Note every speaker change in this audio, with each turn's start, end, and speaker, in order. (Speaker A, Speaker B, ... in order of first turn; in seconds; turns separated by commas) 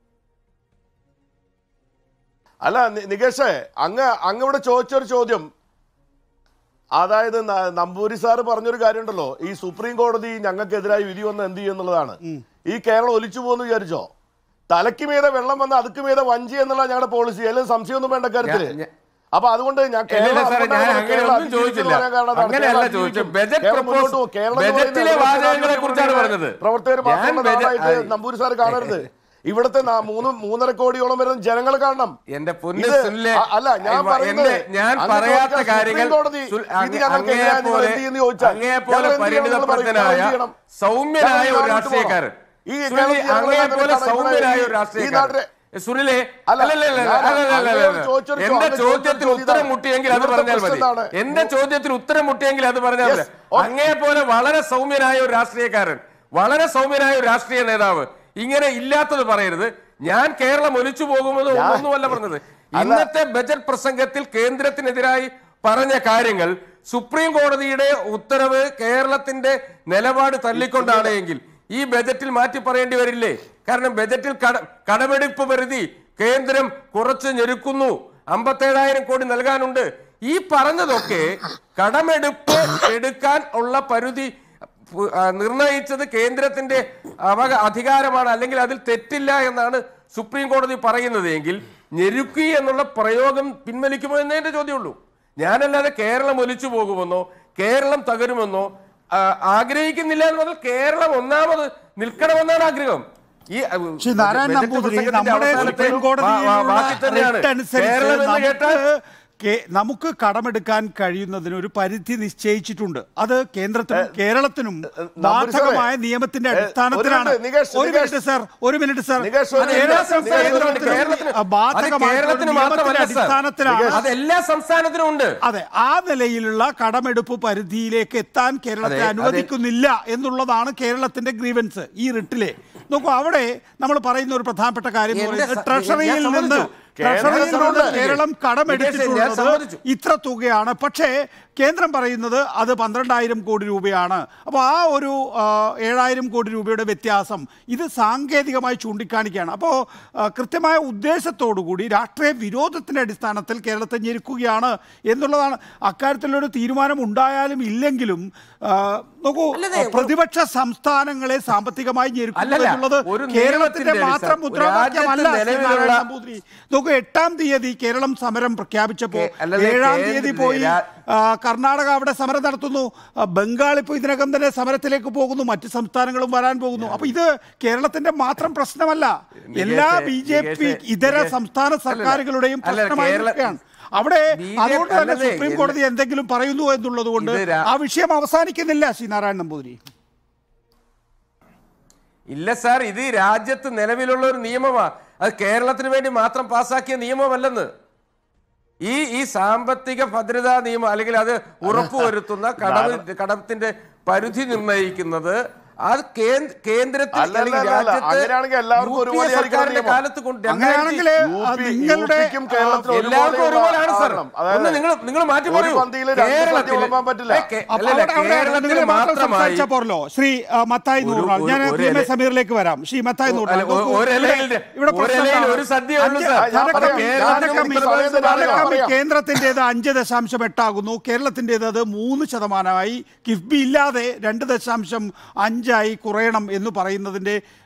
Speaker A: 2.6-5.5, Speaker A: 7.0-12.2, Speaker A: 12.7-14.1, Speaker A: 14.7-18.7, Speaker B: 18.4-18.9, Speaker A: 19.3-32.2, Speaker B: 20.1-28.1, Speaker B: 28.7-29.0, Speaker B: 32.3-42.3, Speaker A: 32.8-40.5, Speaker A: 41.2-45.5, Speaker B: 42.9-84.3, Speaker A: 46.5-51.5, Speaker A: 53.0-53.8, Speaker A: 61.5-61.9, Speaker A: 62.8-63.1, Speaker A: 70.5-71.2, Speaker B: 84.9-108.8, Speaker C: 104.0-124.1, Speaker A: 105.5-106.0, Speaker A: 115.0-115.9, Speaker A: 116.5-118.2, Speaker A: 119.2-121.0, Speaker B: 119.6-123.3, Speaker A: 123.7-124.0, Speaker B: 123.9-125.3, Speaker C: 125.4-189.8, Speaker B: 128.8-129.5, Speaker B: 135.1-139.8, Speaker A: 137.0-138.0, Speaker B: 159.5-160.1, Speaker B: 162.4-166.0, Speaker B: 169.1-170.8, Speaker B: 176.8-177.1, Speaker B: 179.5-181.3, Speaker B: 181.9-183.6, Speaker B: 184.3-185.8, Speaker B: 187.2-187.7, Speaker B: 192.3-197.7, Speaker B: 198.8-211.1, Speaker A: 201.7-202.0, Speaker A: 202.6-203.0, Speaker A: 207.1-210.0, Speaker C: 210.5-212.9, Speaker A: 211.2-214.8, Speaker B: 212.9-219.7, Speaker A: 215.5-217.5, Speaker C: 217.7-237.4, Speaker B: 221.0-222.1, Speaker B: 223.3-228.8, Speaker A: 226.4-228.9